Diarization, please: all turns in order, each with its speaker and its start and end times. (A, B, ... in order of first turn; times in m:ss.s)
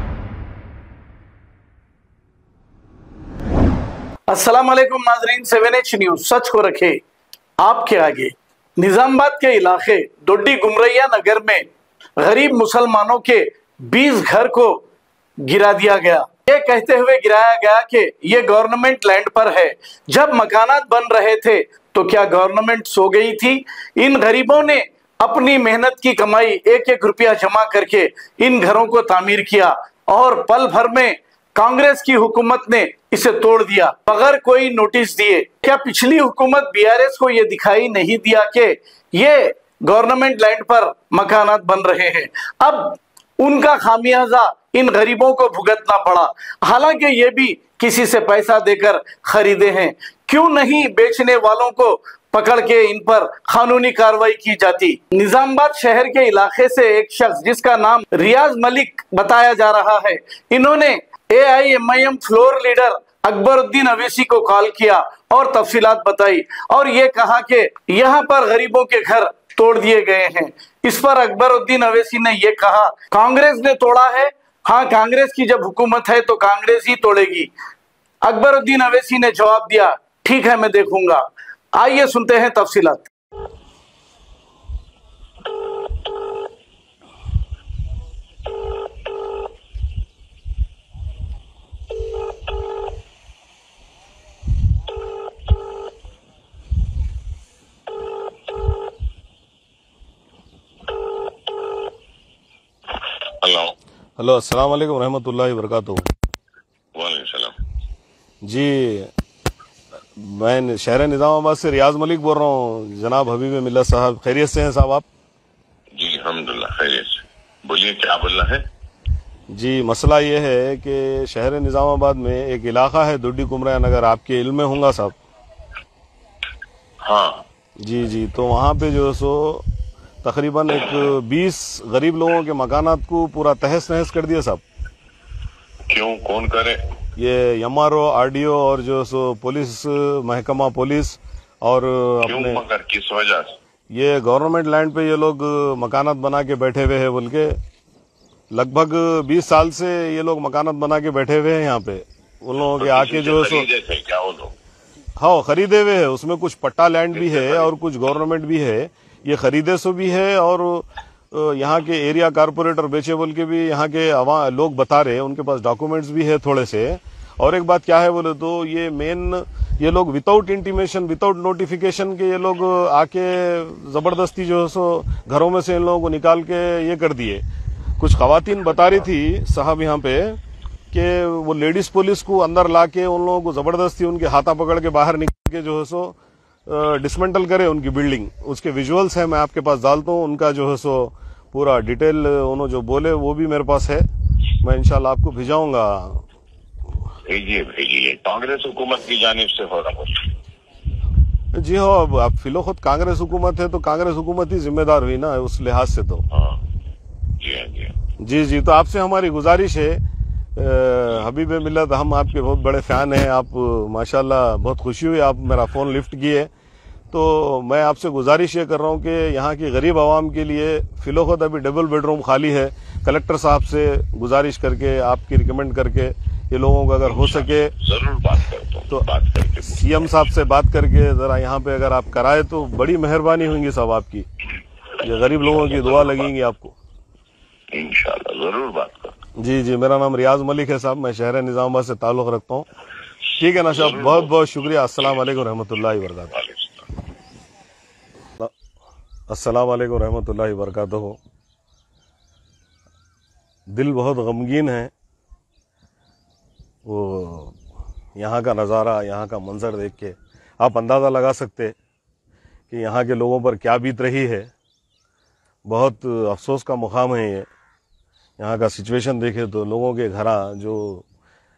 0:04.3-0:07.0 A
0:07.6-0:11.6 A
0:12.2-0:14.8 A
0:15.4-1:17.5 A
1:18.2-1:23.1 A
1:43.2-1:43.7 B
1:44.2-1:46.1 C
1:46.9-1:47.5 B
1:48.4-1:49.1 C
1:50.2-1:55.0 C
1:56.0-1:58.6 B
1:59.5-2:05.2 C
2:07.0-2:07.4 B
2:07.8-2:09.7 C
2:10.2-2:14.6 C
2:10.8-2:11.1 B
2:15.9-2:16.8 B
2:17.2-2:22.6 C
2:22.3-2:23.6 B
2:23.9-2:27.6 C
2:28.5-2:33.7 C
2:32.8-2:34.5 B
2:35.2-2:57.4 C
2:37.1-2:37.7 B
2:58.0-3:00.4 C
3:00.9-3:14.1 C
3:14.6-3:16.2 C
3:17.3-3:20.2 B
3:21.5-3:26.2 C
3:26.3-3:26.6 B
3:27.4-3:27.9 B
3:28.2-3:30.0 C
3:30.6-3:36.5 C
3:37.1-3:47.7 C
3:47.8-3:49.7 B
3:49.7-3:54.3 C
3:55.0-3:56.8 C
3:55.6-3:56.2 B
3:57.7-3:59.2 B
3:59.4-4:02.7 C
4:03.4-4:06.3 C
4:06.4-4:06.8 B
4:09.3-4:11.2 C
4:13.7-4:14.9 C
4:16.9-4:17.6 C
4:18.2-4:21.7 C
4:22.7-4:24.5 C
4:25.7-4:27.5 C
4:28.4-4:31.0 C